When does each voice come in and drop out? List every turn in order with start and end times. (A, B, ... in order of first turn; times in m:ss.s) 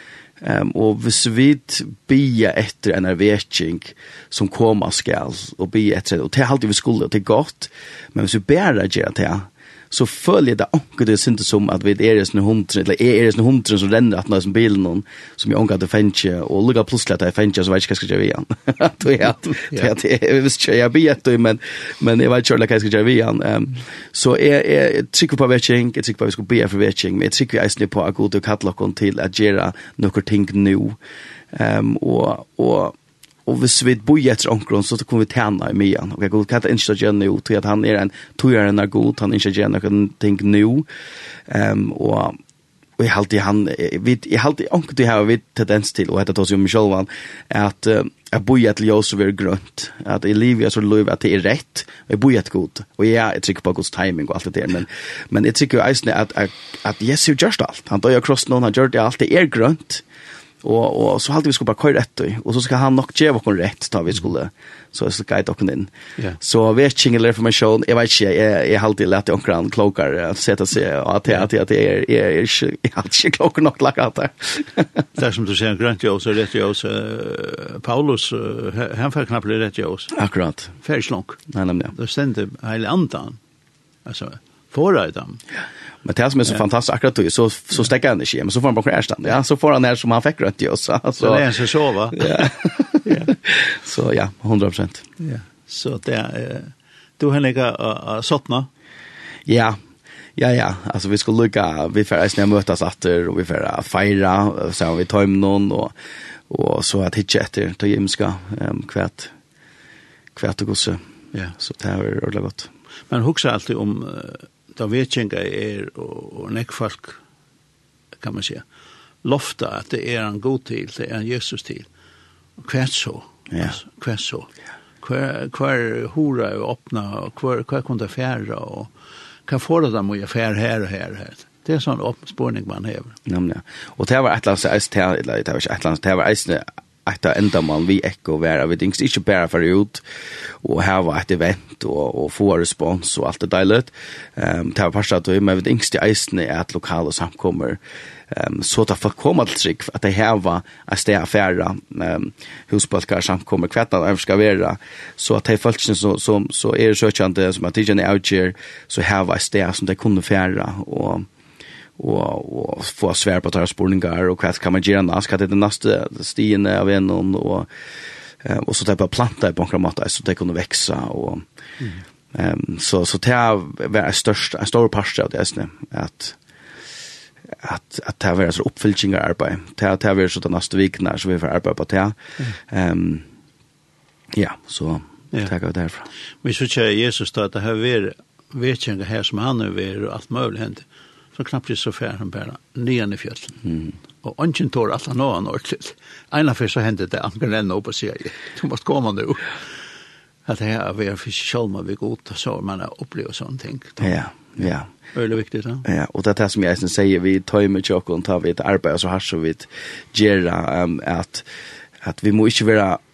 0:00.4-0:31.0 A
0:31.5-0:40.9 A
0:41.5-0:42.4 A
0:43.0-1:00.0 A
1:00.6-1:15.0 A
1:15.1-1:20.1 B
1:20.1-1:20.7 A
1:20.8-1:23.4 B
1:21.5-1:21.9 A
1:24.0-1:25.4 B
1:26.0-1:31.5 A
1:31.2-1:32.5 B
1:32.1-1:35.0 A
1:33.0-1:33.3 B
1:35.2-1:38.7 B
1:39.4-1:39.8 A
1:40.4-1:45.9 A
1:46.5-1:49.3 A
1:50.3-1:51.0 A
1:51.6-1:52.7 A
1:53.1-1:57.2 B
1:58.2-1:58.6 B
1:59.2-2:01.9 B
2:02.6-2:04.5 B
2:05.0-2:08.9 B
2:09.4-2:13.2 B
2:13.3-2:20.0 A
2:20.6-2:41.3 A
2:42.0-2:47.7 A
2:48.4-2:51.4 A
2:52.3-2:56.4 A
2:57.5-3:03.2 A
3:04.3-3:06.1 A
3:06.4-3:13.6 B
3:13.7-3:13.9 A
3:14.2-3:19.5 B
3:20.4-3:24.1 B
3:24.0-3:24.9 A
3:25.1-3:25.8 B
3:25.8-3:31.4 A
3:32.0-3:33.0 A